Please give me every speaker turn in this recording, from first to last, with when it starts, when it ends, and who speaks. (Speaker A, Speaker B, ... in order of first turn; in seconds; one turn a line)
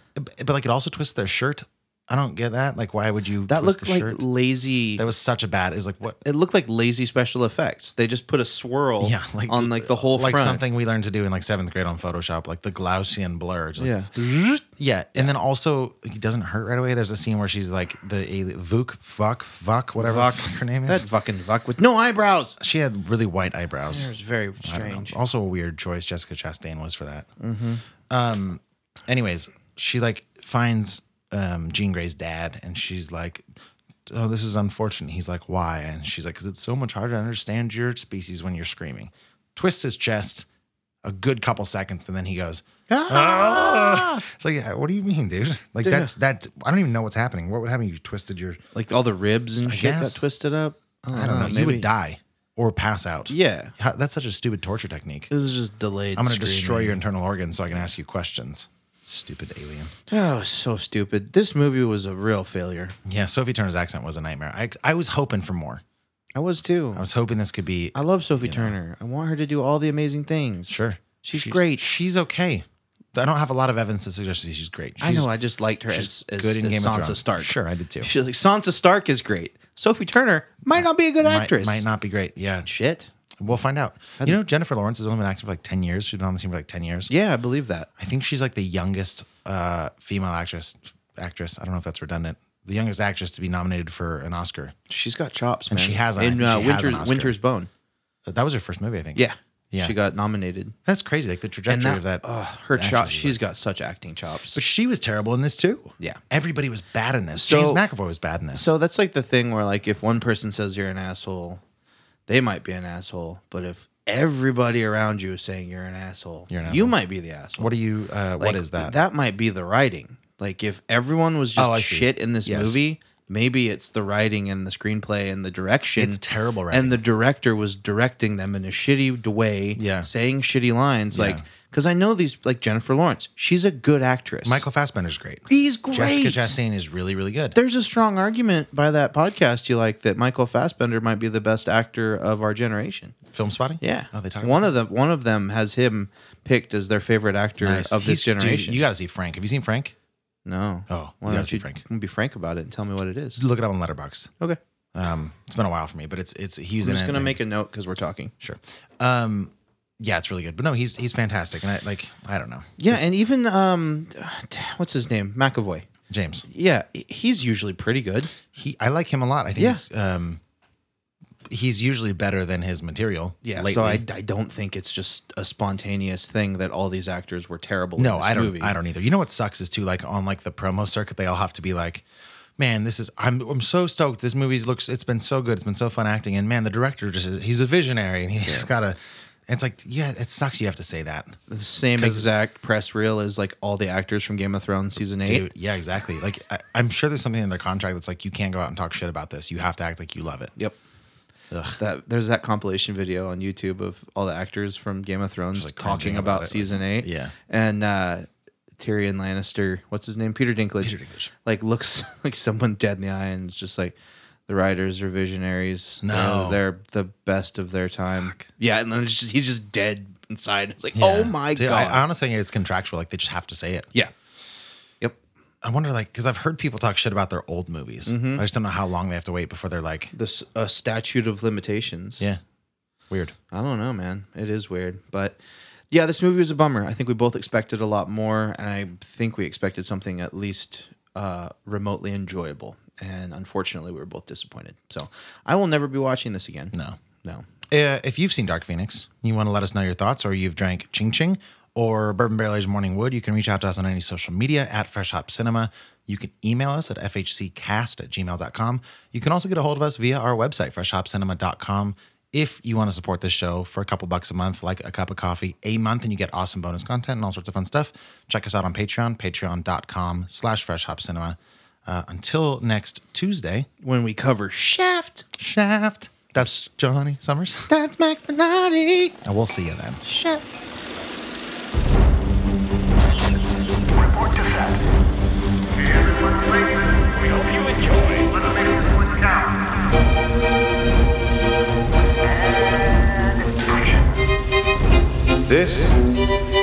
Speaker A: 0.2-4.2
Speaker B: 3.5-5.1
Speaker A: 5.0-6.2
Speaker B: 6.2-10.6
Speaker A: 9.0-13.9
Speaker B: 13.8-14.6
Speaker A: 14.8-21.1
Speaker B: 19.9-22.6
Speaker A: 22.6-27.3
Speaker B: 23.9-25.2
Speaker B: 27.4-27.8
Speaker A: 28.1-33.5
Speaker A: 34.1-40.5
Speaker A: 41.0-48.6
Speaker B: 42.9-44.2
Speaker B: 45.8-46.1
Speaker B: 48.8-51.9
Speaker A: 49.6-50.2
Speaker A: 51.1-55.3
Speaker B: 53.3-53.7
Speaker B: 55.3-57.0
Speaker A: 56.2-59.9
Speaker B: 60.1-63.0
Speaker A: 63.0-65.8
Speaker B: 66.3-67.1
Speaker A: 66.9-68.8
Speaker B: 67.9-71.9
Speaker A: 70.7-75.3
Speaker B: 75.0-81.9
Speaker A: 75.9-78.1
Speaker A: 80.7-82.7
Speaker B: 82.6-83.1
Speaker A: 83.4-87.1
Speaker B: 87.1-87.9
Speaker A: 88.0-94.7
Speaker B: 94.9-97.7
Speaker A: 95.7-97.4
Speaker A: 98.3-100.0
Speaker B: 99.1-100.7
Speaker A: 100.9-103.4
Speaker B: 101.7-104.6
Speaker A: 104.5-108.7
Speaker B: 107.4-107.8
Speaker B: 108.5-111.6
Speaker B: 112.3-117.7
Speaker A: 116.5-117.0
Speaker A: 117.6-119.0
Speaker B: 118.4-134.6
Speaker A: 121.6-122.8
Speaker A: 126.0-127.0
Speaker A: 129.8-130.1
Speaker A: 131.1-131.4
Speaker A: 134.4-137.6
Speaker B: 135.5-136.6
Speaker B: 137.6-143.2
Speaker A: 143.3-144.7
Speaker B: 143.8-148.8
Speaker A: 147.6-149.9
Speaker B: 150.4-153.4
Speaker A: 150.9-151.8
Speaker A: 153.4-154.3
Speaker A: 154.9-157.4
Speaker B: 156.8-158.3
Speaker A: 158.4-163.0
Speaker B: 162.8-165.9
Speaker A: 166.1-166.4
Speaker B: 166.5-168.3
Speaker A: 168.4-170.4
Speaker B: 169.6-169.8
Speaker A: 171.5-174.0
Speaker B: 173.4-178.7
Speaker A: 178.0-182.1
Speaker A: 182.6-191.4
Speaker B: 191.5-195.5
Speaker A: 192.0-192.3
Speaker A: 195.2-200.5
Speaker A: 201.5-201.8
Speaker B: 201.8-214.0
Speaker A: 205.5-207.3
Speaker A: 210.8-211.3
Speaker B: 214.5-222.0
Speaker A: 216.0-216.6
Speaker A: 218.2-218.4
Speaker A: 220.9-223.9
Speaker A: 225.6-230.1
Speaker B: 228.1-228.4
Speaker B: 230.1-232.3
Speaker A: 233.1-233.3
Speaker B: 233.5-235.4
Speaker B: 235.9-247.5
Speaker A: 246.7-247.0
Speaker A: 247.7-273.7
Speaker B: 273.8-275.2
Speaker A: 275.4-277.7
Speaker B: 277.7-279.2
Speaker A: 279.2-280.0
Speaker B: 280.0-280.4
Speaker C: 285.9-289.4